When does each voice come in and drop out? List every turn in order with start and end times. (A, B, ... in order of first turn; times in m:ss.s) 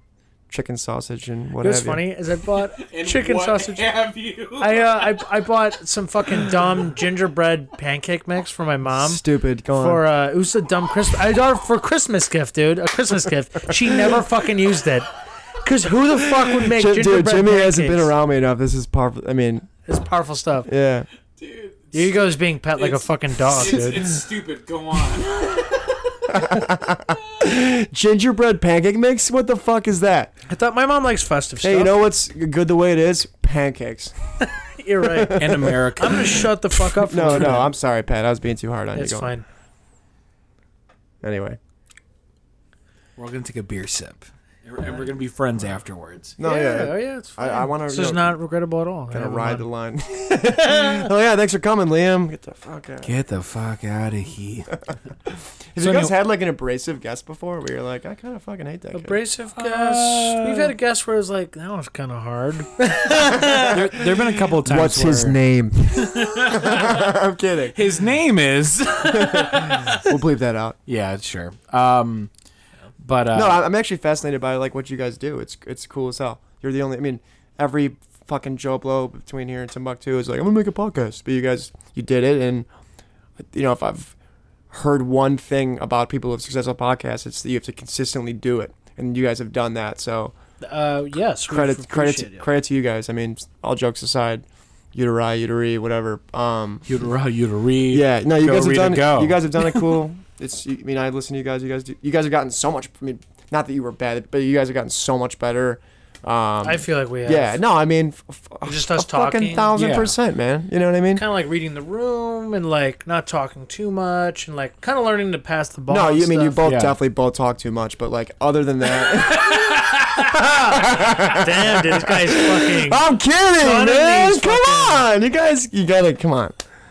0:00.5-0:02.0 A
0:01.6-0:03.9 B
0:02.6-0:05.3 C
0:04.6-0:15.1 B
0:06.5-0:06.9 C
0:08.9-0:10.0 A
0:15.6-0:18.1 B
0:16.3-0:19.7 A
0:19.8-0:20.7 B
0:20.6-0:21.1 A
0:21.4-0:26.3 C
0:21.9-0:24.0 B
0:26.3-0:30.3 A
0:30.5-0:31.9 B
0:31.6-0:34.1 A
0:34.6-0:37.7 B
0:35.0-0:35.8 A
0:35.4-0:36.5 C
0:37.0-0:39.3 A
0:37.2-0:37.6 C
0:38.9-0:39.4 B
0:41.2-0:41.6 A
0:43.2-0:46.4 C
0:46.4-0:48.4 A
0:46.4-0:49.6 B
0:49.1-0:53.1 A
0:53.0-0:54.8 C
0:55.3-0:59.2 A
0:55.8-0:56.1 C
0:58.9-1:03.8 B
0:59.5-1:00.7 C
1:03.3-1:07.8 A
1:03.6-1:05.4 C
1:05.9-1:07.1 C
1:07.7-1:10.1 C
1:09.0-1:10.8 A
1:10.9-1:12.3 C
1:13.0-1:13.6 C
1:13.3-1:22.7 A
1:23.4-1:24.1 A
1:24.7-1:30.3 A
1:30.6-1:32.5 B
1:31.5-1:36.8 A
1:36.8-1:39.9 C
1:37.9-1:51.2 A
1:46.6-1:47.6 B
1:48.6-1:49.7 B
1:49.7-1:50.1 C
1:51.1-1:56.6 B
1:55.9-1:59.8 A
1:56.6-1:57.0 C
1:59.4-2:00.2 C
2:00.3-2:06.6 A
2:00.3-2:03.0 B
2:03.6-2:05.0 B